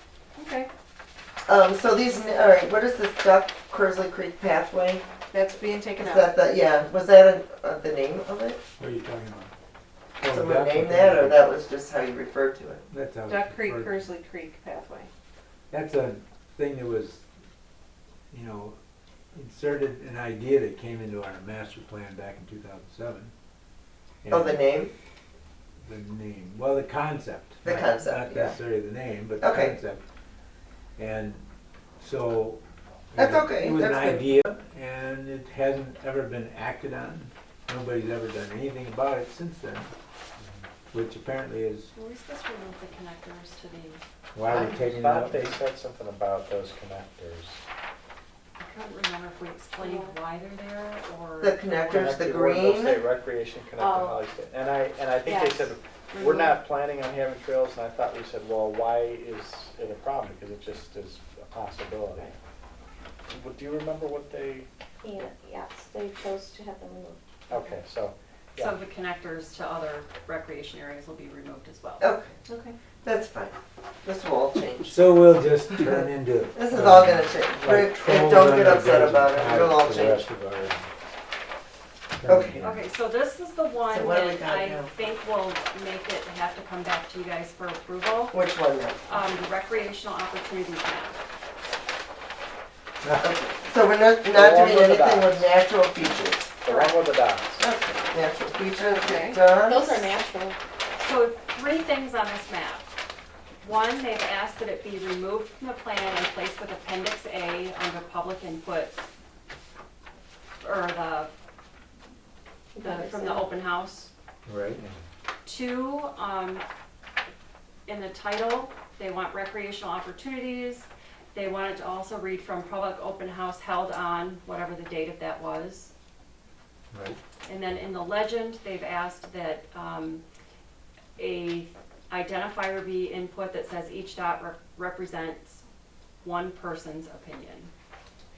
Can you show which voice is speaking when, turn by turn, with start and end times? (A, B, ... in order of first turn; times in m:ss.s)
0:00.4-0:00.7 A
0:01.5-0:05.0 B
0:05.3-0:06.4 A
0:06.0-0:08.6 B
0:08.8-0:09.5 C
0:10.2-0:11.5 C
0:10.2-0:12.8 B
0:12.9-0:14.1 C
0:13.3-0:15.1 A
0:15.7-0:17.2 C
0:18.3-0:18.8 C
0:19.3-0:23.3 C
0:24.2-0:24.6 C
0:24.3-0:24.9 B
0:25.8-0:30.0 C
0:27.6-0:28.6 B
0:29.4-0:29.8 B
0:31.0-0:31.4 C
0:32.0-0:32.6 C
0:33.1-0:39.9 C
0:33.2-0:34.5 B
0:40.9-0:41.9 C
0:41.9-0:44.0 D
0:44.4-0:45.6 C
0:44.5-0:47.6 E
0:48.6-0:52.2 D
0:49.8-0:50.2 F
0:51.4-0:53.0 B
0:51.9-1:02.3 E
0:53.8-0:54.2 F
0:55.2-0:55.8 F
0:56.1-0:56.6 D
1:03.3-1:04.7 E
1:05.0-1:07.2 F
1:07.5-1:08.8 E
1:07.5-1:07.8 D
1:08.6-1:12.1 D
1:12.0-1:12.4 B
1:12.5-1:12.8 A
1:13.0-1:15.0 B
1:14.8-1:20.9 C
1:16.5-1:20.3 B
1:22.2-1:22.8 C
1:22.3-1:22.6 B
1:22.6-1:28.4 D
1:23.9-1:24.9 B
1:28.3-1:29.0 B
1:29.1-1:31.2 D
1:33.0-1:33.3 C
1:33.2-1:36.5 B
1:34.3-1:35.6 E
1:36.6-1:37.6 E
1:37.6-1:40.1 B
1:38.7-1:39.4 A
1:39.7-1:40.6 F
1:41.0-1:42.9 D
1:43.6-1:49.0 D
1:50.6-1:51.3 D
1:52.8-1:53.5 F
1:52.8-1:54.1 D
1:54.5-1:54.8 C
1:55.4-1:56.6 D
1:57.9-2:05.9 D
2:06.9-2:07.2 C
2:07.5-2:10.2 D
2:11.2-2:15.6 D
2:16.2-2:17.7 D